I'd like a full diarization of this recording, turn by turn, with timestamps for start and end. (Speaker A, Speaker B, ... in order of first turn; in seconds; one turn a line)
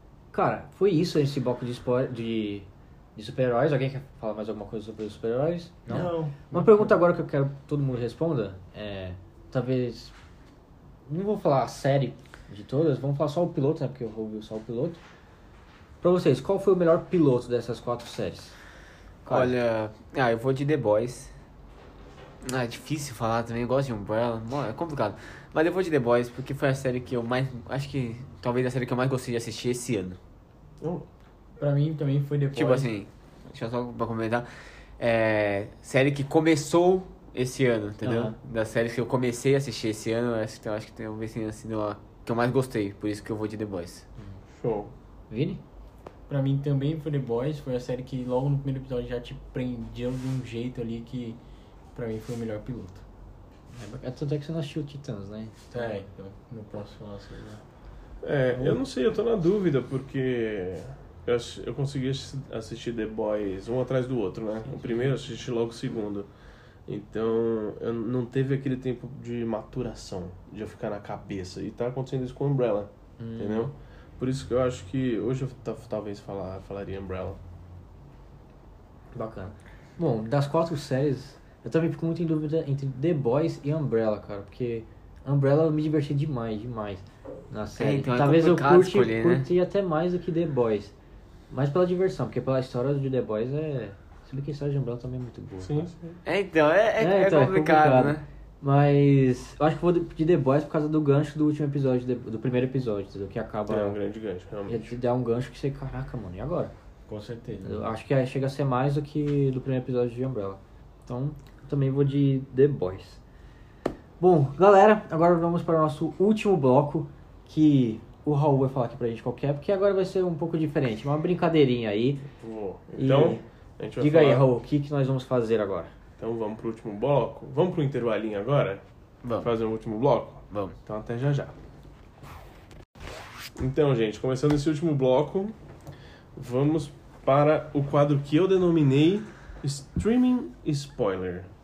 Speaker A: 0.3-10.1
Speaker B: 5.9-6.9
Speaker A: 11.1-15.0
Speaker A: 16.0-18.6
Speaker A: 19.2-19.5
Speaker C: 19.3-21.3
Speaker C: 22.4-30.2
Speaker D: 30.8-31.1
Speaker B: 31.6-32.9
Speaker C: 32.5-34.5
Speaker C: 35.0-44.0
Speaker A: 38.0-38.4
Speaker D: 44.5-44.9
Speaker A: 45.3-45.6
Speaker B: 46.3-51.4
Speaker B: 51.9-53.0
Speaker A: 53.7-55.6
Speaker B: 55.7-57.6
Speaker D: 58.2-66.3
Speaker A: 58.5-58.8
Speaker D: 66.9-77.4
Speaker A: 73.2-73.7
Speaker A: 79.1-90.9
Speaker C: 87.8-89.5
Speaker A: 91.5-95.9
Speaker D: 95.6-96.2
Speaker C: 96.2-98.2
Speaker A: 97.0-104.0
Speaker D: 103.7-104.9
Speaker A: 104.7-106.7
Speaker B: 107.1-107.8
Speaker A: 107.6-113.2
Speaker A: 114.2-122.3
Speaker D: 122.3-124.5
Speaker A: 123.0-123.4
Speaker A: 124.0-125.9
Speaker D: 126.2-128.8
Speaker C: 129.2-129.5
Speaker D: 129.4-131.5
Speaker C: 130.5-130.8
Speaker D: 133.6-135.6
Speaker D: 136.3-141.5